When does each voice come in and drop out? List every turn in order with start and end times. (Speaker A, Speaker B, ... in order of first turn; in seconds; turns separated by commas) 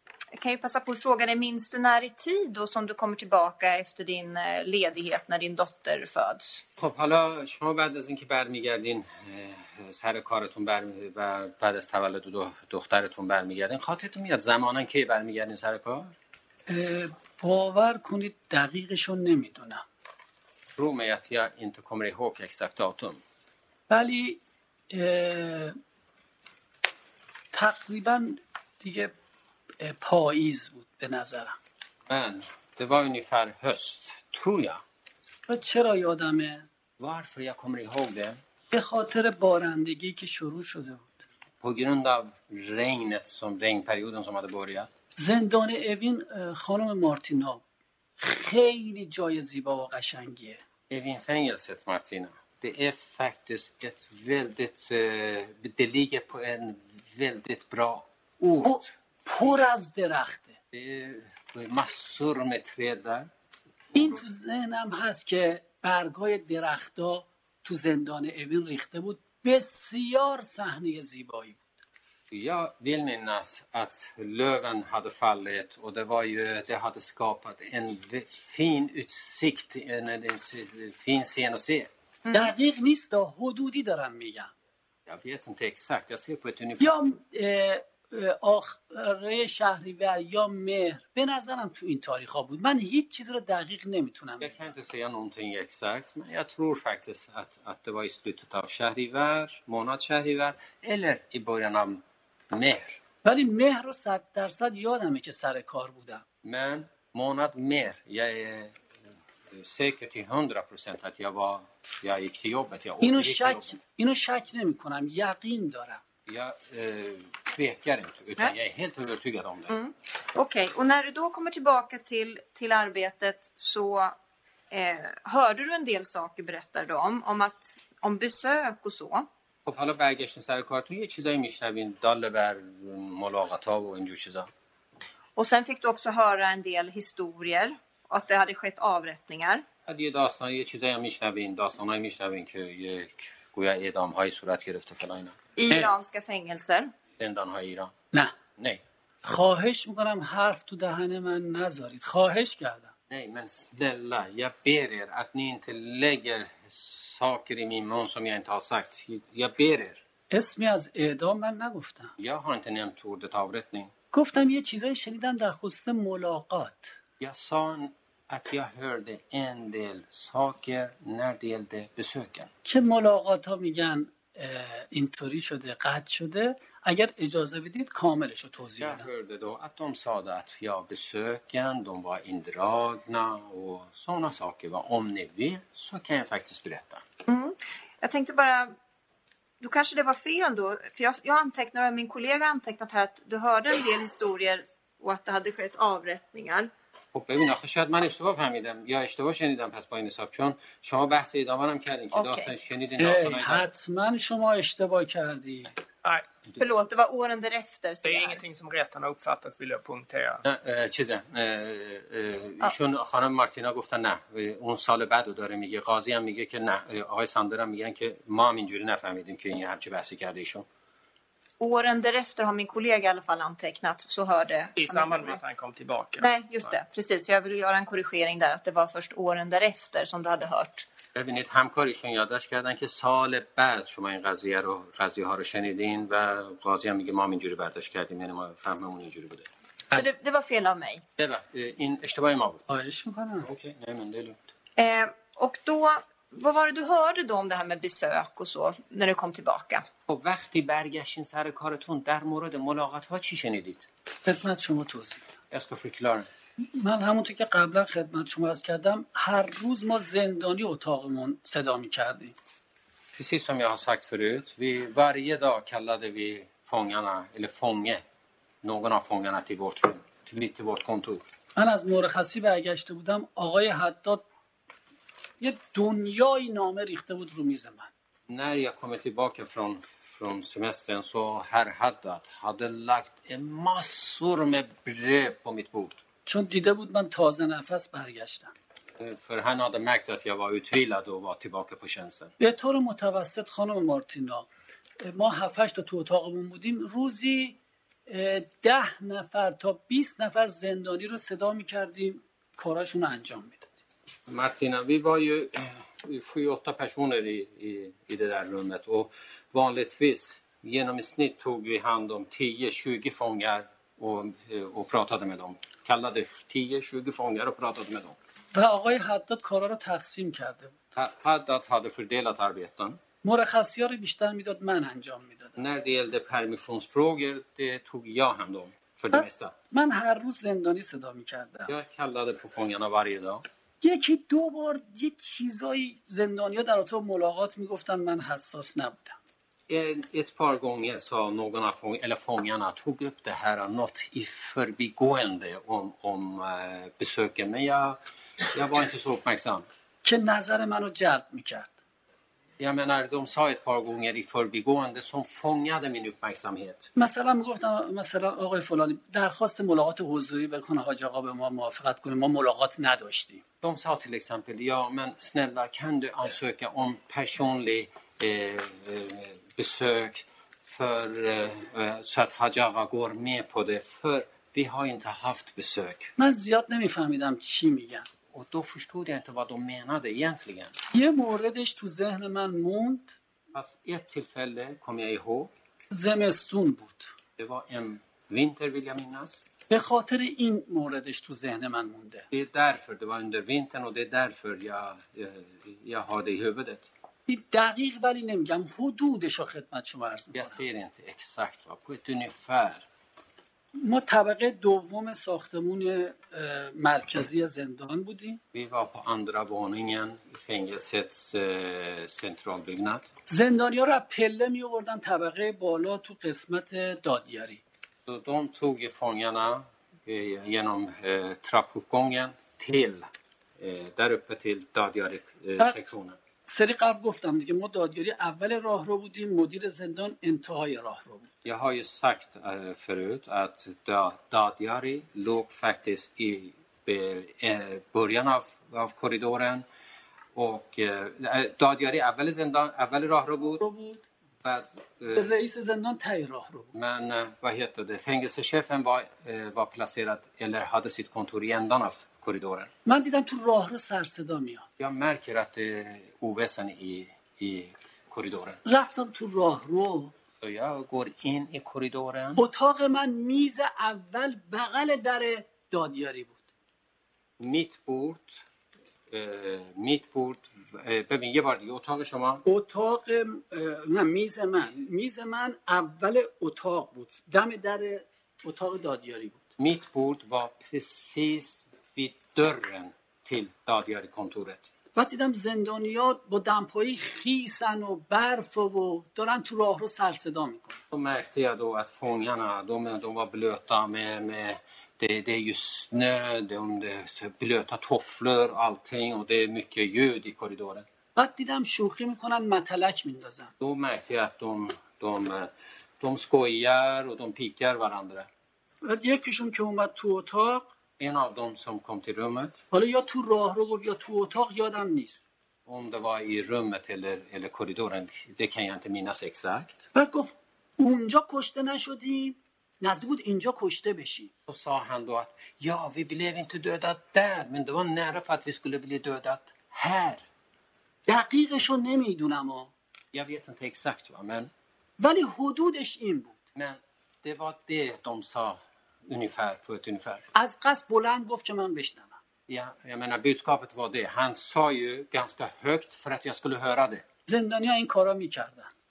Speaker A: 0.3-6.6, Speaker B: 6.8-16.1, Speaker C: 16.7-19.8, Speaker B: 20.8-23.2, Speaker C: 23.9-25.8, Speaker C: 27.5-29.1, Speaker C: 29.8-31.6, Speaker B: 32.1-34.8, Speaker C: 35.5-36.6, Speaker B: 37.0-38.4, Speaker C: 38.7-41.2, Speaker B: 41.6-44.9, Speaker C: 45.2-47.6, Speaker C: 48.2-50.6, Speaker B: 50.9-58.8, Speaker C: 58.6-60.6, Speaker B: 60.7-63.3, Speaker B: 63.9-64.2, Speaker C: 63.9-71.6, Speaker B: 72.3-81.9, Speaker C: 82.3-84.5, Speaker B: 85.1-86.9, Speaker C: 86.8-94.6, Speaker B: 94.4-103.0, Speaker C: 103.2-106.2, Speaker B: 106.4-108.8, Speaker B: 109.5-113.8, Speaker C: 113.0-116.0, Speaker B: 116.2-119.7, Speaker A: 119.7-124.1, Speaker A: 124.7-129.3, Speaker B: 129.7-134.5, Speaker A: 135.3-139.6, Speaker B: 139.8-145.9, Speaker A: 145.6-146.9, Speaker B: 147.2-147.9, Speaker B: 148.6-148.8, Speaker C: 149.2-152.9, Speaker B: 153.1-160.0, Speaker C: 160.3-162.1, Speaker B: 162.2-163.9, Speaker C: 164.1-167.0, Speaker B: 167.2-172.5, Speaker C: 172.6-179.1, Speaker B: 178.8-187.0, Speaker A: 187.3-188.7, Speaker A: 189.6-196.7, Speaker B: 197.1-203.7, Speaker A: 202.1-202.5, Speaker C: 203.0-205.7, Speaker A: 206.6-208.4, Speaker D: 208.0-210.4, Speaker B: 210.4-220.6, Speaker A: 221.6-225.4, Speaker D: 224.8-226.7, Speaker A: 226.2-230.9, Speaker B: 231.1-239.5, Speaker A: 239.9-241.0, Speaker B: 241.2-242.6, Speaker C: 242.7-243.5, Speaker B: 243.4-244.5, Speaker A: 244.8-249.9, Speaker B: 250.1-253.9, Speaker C: 254.2-255.3, Speaker B: 255.5-256.3, Speaker C: 256.6-262.4, Speaker B: 263.1-268.0, Speaker B: 268.6-271.2, Speaker C: 271.6-274.2, Speaker C: 275.4-277.9, Speaker B: 278.3-286.0, Speaker C: 286.2-288.5, Speaker B: 289.0-292.3, Speaker C: 292.4-294.5, Speaker C: 295.0-303.7, Speaker B: 304.3-318.1, Speaker C: 318.5-320.8, Speaker B: 320.9-323.0, Speaker C: 323.2-325.6, Speaker B: 325.6-329.5, Speaker C: 329.1-331.7, Speaker B: 331.7-333.4, Speaker C: 333.8-339.2, Speaker B: 339.7-348.0, Speaker B: 348.5-349.6, Speaker C: 350.0-351.7, Speaker B: 352.6-356.9, Speaker C: 356.9-363.4, Speaker B: 363.6-376.1, Speaker C: 376.2-378.1, Speaker B: 378.3-380.7, Speaker C: 380.9-383.1, Speaker B: 383.5-385.5, Speaker C: 385.9-387.1, Speaker B: 387.4-389.4, Speaker C: 389.7-392.2, Speaker B: 392.3-396.9, Speaker C: 397.3-400.6, Speaker B: 400.3-402.9, Speaker C: 403.7-408.4, Speaker B: 408.5-413.1, Speaker C: 413.3-417.6, Speaker B: 418.1-426.2, Speaker C: 426.5-431.3, Speaker B: 431.4-439.6, Speaker B: 440.3-443.6, Speaker C: 443.6-444.0, Speaker B: 444.4-445.3, Speaker C: 445.1-446.7, Speaker B: 446.7-452.7, Speaker C: 452.8-454.6, Speaker B: 454.8-458.6, Speaker C: 458.6-460.1, Speaker B: 460.4-462.4, Speaker C: 462.4-466.4, Speaker B: 467.4-468.4, Speaker B: 469.1-472.4, Speaker C: 472.4-479.4, Speaker B: 479.6-484.7, Speaker C: 484.9-490.8, Speaker B: 490.9-500.9, Speaker C: 501.1-503.5, Speaker B: 503.6-508.3, Speaker C: 508.8-510.7, Speaker B: 511.0-512.6, Speaker C: 512.7-515.2, Speaker B: 515.6-519.9, Speaker C: 519.9-524.3, Speaker B: 524.5-530.2, Speaker C: 531.1-532.7, Speaker B: 533.1-534.5, Speaker C: 535.0-536.4, Speaker B: 536.5-540.2, Speaker C: 540.3-542.2, Speaker B: 542.5-547.0, Speaker C: 547.3-548.7